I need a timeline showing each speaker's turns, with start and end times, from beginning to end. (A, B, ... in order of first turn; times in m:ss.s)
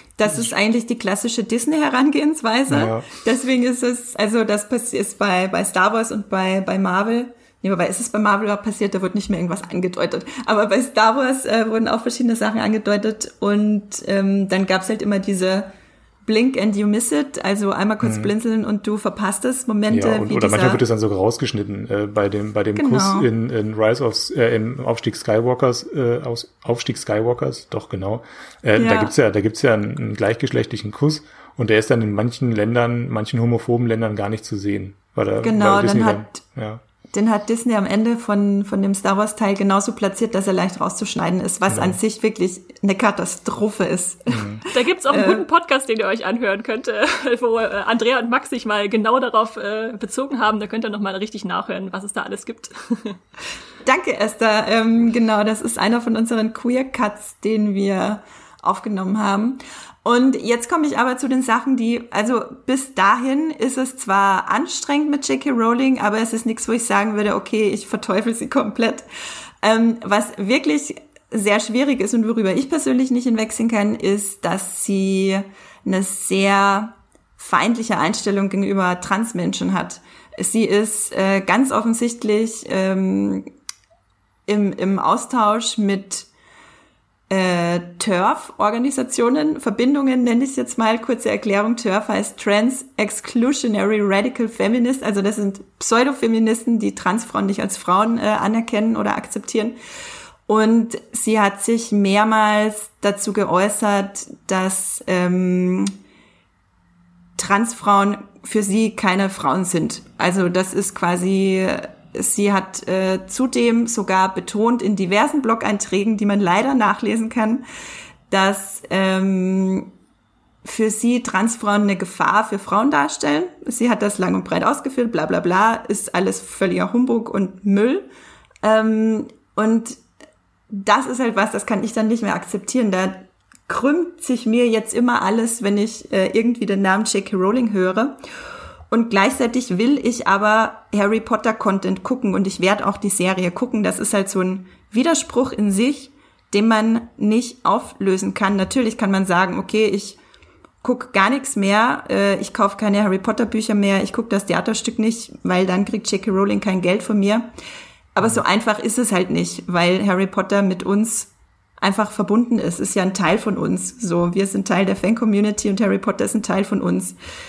0:00.2-0:15.7 A
0:02.7-0:03.1 B
0:16.2-0:20.8 A
0:18.0-0:18.3 B
0:19.9-0:36.8 B
0:22.7-0:23.3 A
0:28.8-0:29.1 A
0:35.4-0:36.4 A
0:37.1-0:45.4 A
0:41.7-0:42.0 B
0:44.3-0:44.6 B
0:44.7-0:53.2 C
0:53.8-1:09.0 A
1:09.6-1:23.5 A
1:24.5-1:26.3 A
1:27.3-1:39.8 A
1:40.5-1:45.9 A
1:47.4-1:57.6 A
1:58.3-1:59.9 A
2:00.6-2:08.1 A
2:08.6-2:10.0 A
2:10.7-2:18.2 A
2:18.9-2:30.2 A
2:30.8-2:37.5 A
2:38.1-2:47.2 A